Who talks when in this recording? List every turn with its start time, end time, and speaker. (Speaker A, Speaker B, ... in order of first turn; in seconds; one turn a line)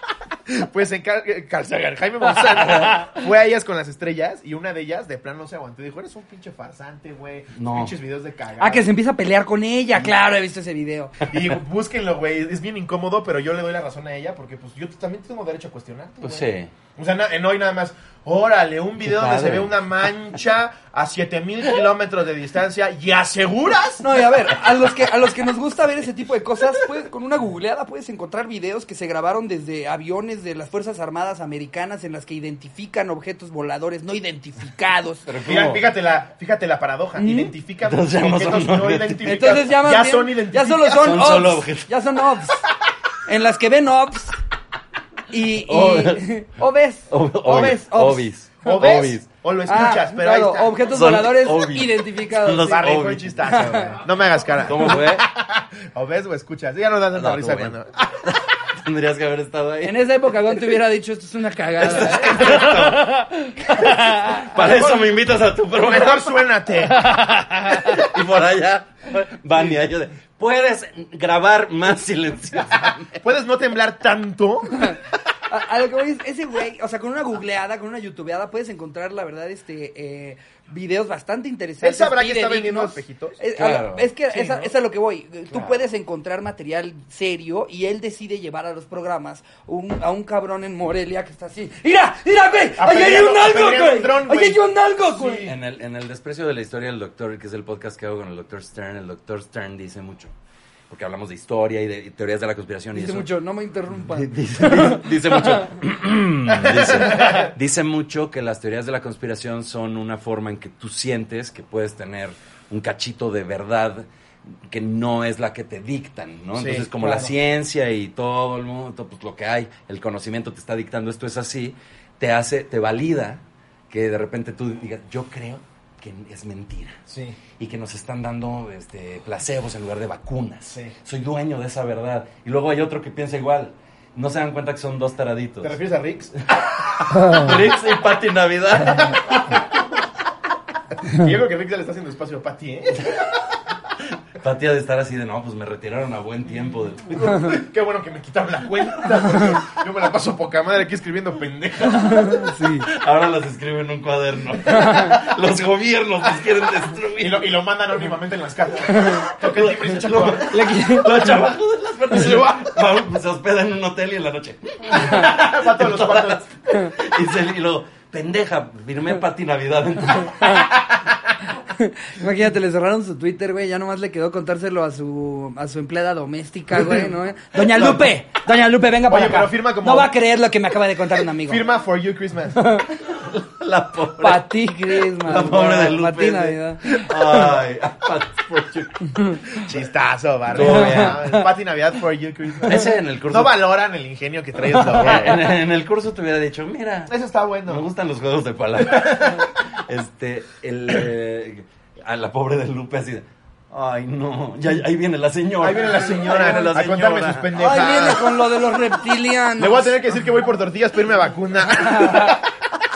Speaker A: 0.5-8.8
Speaker B: 7.6-7.9
Speaker C: 8.6-11.2
Speaker A: 11.2-24.1
Speaker B: 16.2-16.7
Speaker B: 19.0-19.8
Speaker C: 24.0-35.3
Speaker B: 35.3-35.9
Speaker A: 35.4-41.3
Speaker C: 37.2-37.5
Speaker B: 37.8-39.6
Speaker C: 39.3-42.6
Speaker B: 40.9-41.9
Speaker C: 43.2-44.4
Speaker C: 45.3-48.9
Speaker B: 45.6-46.3
Speaker B: 47.1-49.2
Speaker A: 47.5-47.9
Speaker A: 48.6-50.8
Speaker C: 49.7-54.0
Speaker B: 50.9-53.4
Speaker A: 52.7-58.2
Speaker B: 54.6-55.2
Speaker B: 57.1-60.0
Speaker C: 59.8-64.5
Speaker B: 61.8-63.2
Speaker B: 63.7-66.4
Speaker A: 64.6-65.1
Speaker A: 65.8-67.2
Speaker C: 66.9-68.1
Speaker B: 67.7-73.2
Speaker A: 73.2-75.0
Speaker C: 75.5-95.5
Speaker A: 81.8-83.4
Speaker B: 83.5-84.1
Speaker A: 84.3-84.7
Speaker B: 85.5-85.8
Speaker A: 92.8-95.5
Speaker B: 95.5-100.3
Speaker B: 100.9-103.3
Speaker C: 102.9-105.7
Speaker B: 104.0-127.0
Speaker A: 106.5-107.5
Speaker A: 116.6-117.3
Speaker A: 127.1-127.4
Speaker B: 127.6-135.8
Speaker A: 130.7-130.9
Speaker A: 135.6-136.3
Speaker B: 136.5-139.4
Speaker C: 137.1-137.5
Speaker A: 141.1-143.3
Speaker B: 144.3-147.5
Speaker A: 147.2-152.5
Speaker C: 151.9-152.9
Speaker B: 152.8-157.5
Speaker C: 154.7-155.2
Speaker A: 157.2-160.5
Speaker C: 158.9-159.3
Speaker B: 159.4-170.6
Speaker C: 160.4-161.4
Speaker A: 162.1-162.7
Speaker A: 164.9-166.5
Speaker C: 165.0-165.3
Speaker C: 170.4-170.7
Speaker C: 171.7-181.6
Speaker A: 179.1-180.1
Speaker A: 181.2-182.7
Speaker C: 182.6-182.9
Speaker B: 183.0-189.6
Speaker C: 184.2-187.6
Speaker A: 189.6-195.5
Speaker B: 190.5-191.3
Speaker C: 190.6-191.4
Speaker B: 192.7-193.6
Speaker B: 194.7-197.1
Speaker A: 197.1-197.8
Speaker B: 197.7-207.5
Speaker A: 198.8-199.6
Speaker A: 205.6-208.2
Speaker C: 207.5-209.9
Speaker A: 209.6-212.5
Speaker C: 211.7-212.4